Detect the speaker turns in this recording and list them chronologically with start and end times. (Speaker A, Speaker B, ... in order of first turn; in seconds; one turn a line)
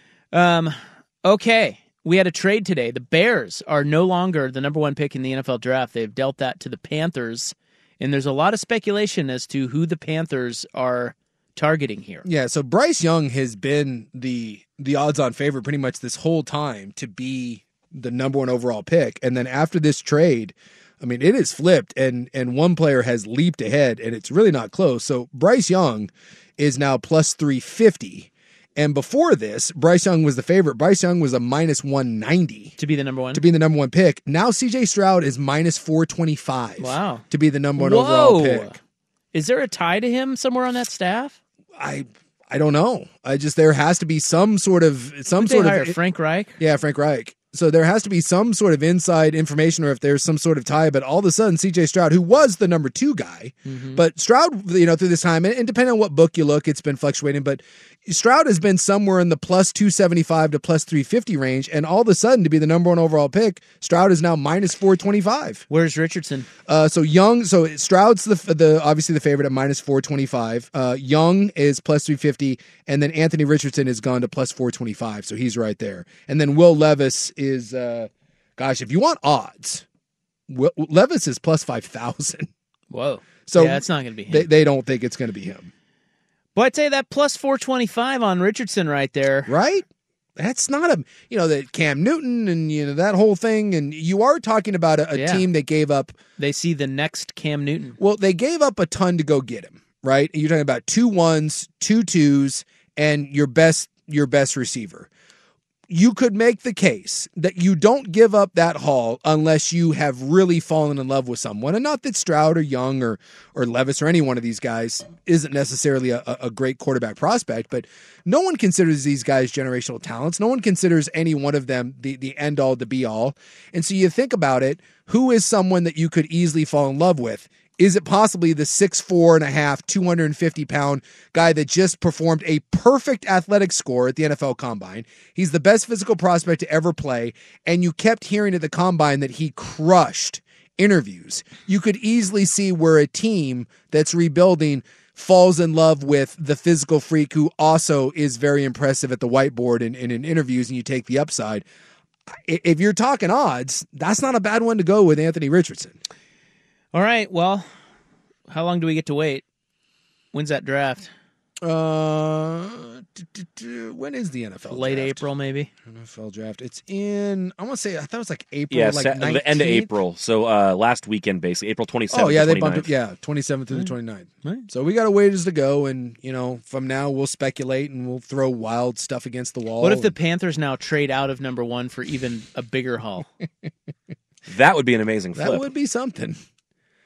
Speaker A: 0.3-12.2
Speaker B: 12.2-32.8
Speaker A: 32.8-33.4
Speaker B: 33.3-38.8
Speaker A: 36.8-37.2
Speaker A: 37.8-38.8
Speaker A: 39.3-41.4
Speaker B: 41.8-46.0
Speaker A: 45.4-46.6
Speaker B: 46.6-65.7
Speaker A: 53.7-54.0
Speaker A: 65.7-66.5
Speaker B: 66.7-79.8
Speaker B: 80.5-82.5
Speaker A: 82.9-84.5
Speaker B: 83.5-85.7
Speaker A: 86.5-89.5
Speaker B: 89.5-89.9
Speaker B: 90.4-96.2
Speaker A: 95.1-95.5
Speaker A: 96.4-98.0
Speaker B: 98.0-105.1
Speaker B: 105.9-151.7
Speaker B: 152.3-156.0
Speaker A: 156.9-157.7
Speaker A: 158.5-159.4
Speaker A: 160.3-161.1
Speaker B: 161.6-165.2
Speaker A: 164.7-165.7
Speaker B: 165.9-169.9
Speaker C: 168.7-172.9
Speaker B: 172.1-180.1
Speaker A: 174.4-174.7
Speaker A: 179.8-183.3
Speaker C: 184.5-185.7
Speaker B: 185.3-186.4